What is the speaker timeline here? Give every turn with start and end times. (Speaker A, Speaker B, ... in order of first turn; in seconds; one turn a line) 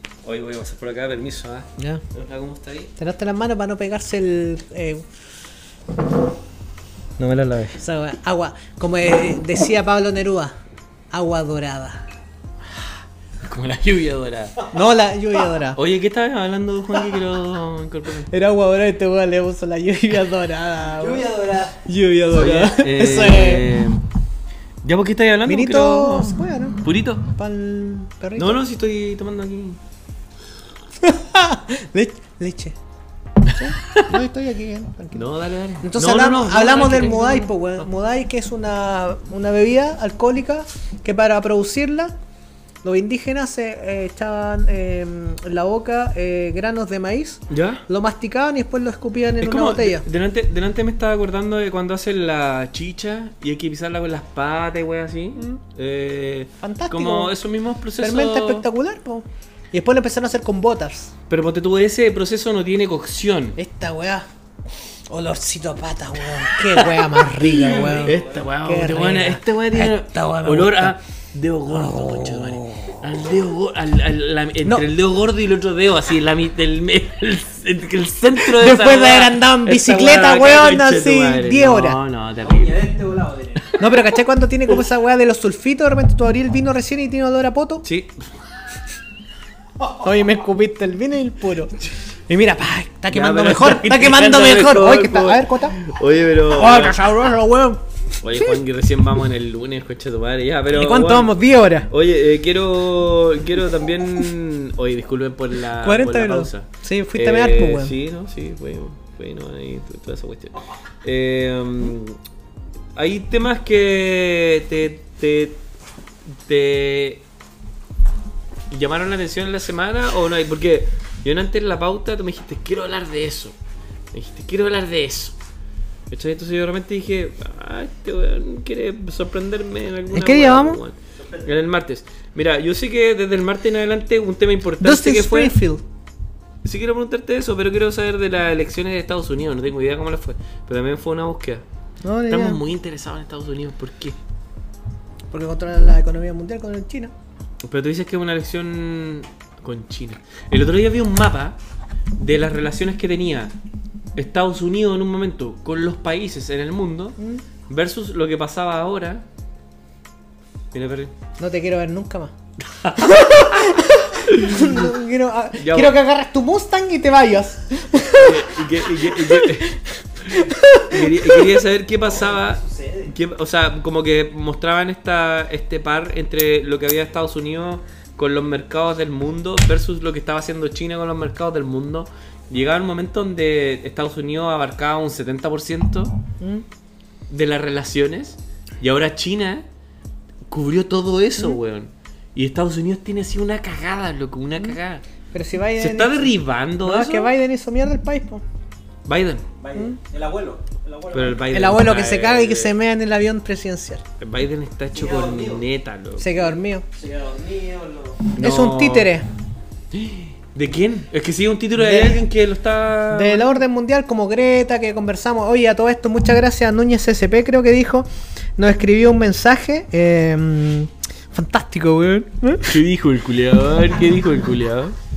Speaker A: 0.2-2.9
Speaker B: 1.8-2.0
Speaker B: 3.0-5.0
Speaker A: 7.2-7.8
Speaker B: 7.8-10.6
Speaker B: 11.1-12.0
Speaker A: 13.4-14.7
Speaker B: 14.7-15.8
Speaker A: 15.7-18.3
Speaker B: 18.3-21.3
Speaker C: 20.8-21.8
Speaker B: 21.8-23.8
Speaker A: 22.3-24.0
Speaker A: 24.8-27.2
Speaker B: 25.4-28.6
Speaker A: 28.4-29.8
Speaker B: 31.0-32.8
Speaker B: 33.5-35.2
Speaker A: 35.1-37.8
Speaker B: 35.8-42.1
Speaker B: 42.8-50.0
Speaker A: 47.5-47.8
Speaker A: 49.4-58.7
Speaker B: 56.6-57.3
Speaker B: 58.0-61.1
Speaker A: 61.3-63.6
Speaker B: 63.5-64.3
Speaker B: 65.1-71.0
Speaker A: 66.5-82.8
Speaker C: 67.5-68.5
Speaker B: 71.7-73.0
Speaker B: 78.4-82.0
Speaker C: 82.4-83.7
Speaker B: 83.8-87.8
Speaker A: 87.8-88.2
Speaker B: 90.0-95.8
Speaker A: 93.1-97.0
Speaker B: 96.5-97.8
Speaker A: 98.2-101.4
Speaker B: 100.7-101.9
Speaker A: 101.9-112.2
Speaker B: 105.8-107.9
Speaker A: 113.0-115.6
Speaker A: 116.3-117.2
Speaker A: 118.7-123.5
Speaker A: 124.1-125.3
Speaker A: 126.1-135.6
Speaker B: 130.1-130.8
Speaker C: 131.2-131.5
Speaker B: 134.8-135.8
Speaker A: 136.6-141.6
Speaker B: 142.0-142.6
Speaker A: 142.3-144.2
Speaker B: 145.3-147.1
Speaker A: 147.6-151.6
Speaker A: 152.2-153.5
Speaker A: 154.2-157.2
Speaker B: 157.2-157.4
Speaker A: 157.7-159.2
Speaker A: 160.7-161.1
Speaker B: 161.4-162.3
Speaker A: 162.6-163.7
Speaker B: 163.0-171.5
Speaker A: 164.2-164.9
Speaker A: 165.6-165.9
Speaker A: 168.1-169.7
Speaker A: 170.2-186.1
Speaker C: 172.0-173.1
Speaker B: 186.4-186.6
Speaker A: 187.3-189.7
Speaker A: 190.5-195.0
Speaker B: 195.3-198.4
Speaker A: 195.8-197.3
Speaker A: 199.1-199.4
Speaker C: 199.6-201.5
Speaker A: 201.1-202.7
Speaker B: 201.5-204.0
Speaker A: 204.2-206.5
Speaker C: 204.9-205.6
Speaker B: 206.2-206.8
Speaker C: 206.9-208.3
Speaker A: 208.3-209.1
Speaker B: 208.4-209.3
Speaker A: 209.9-213.6
Speaker B: 211.8-212.2
Speaker B: 213.1-222.8
Speaker A: 222.7-224.9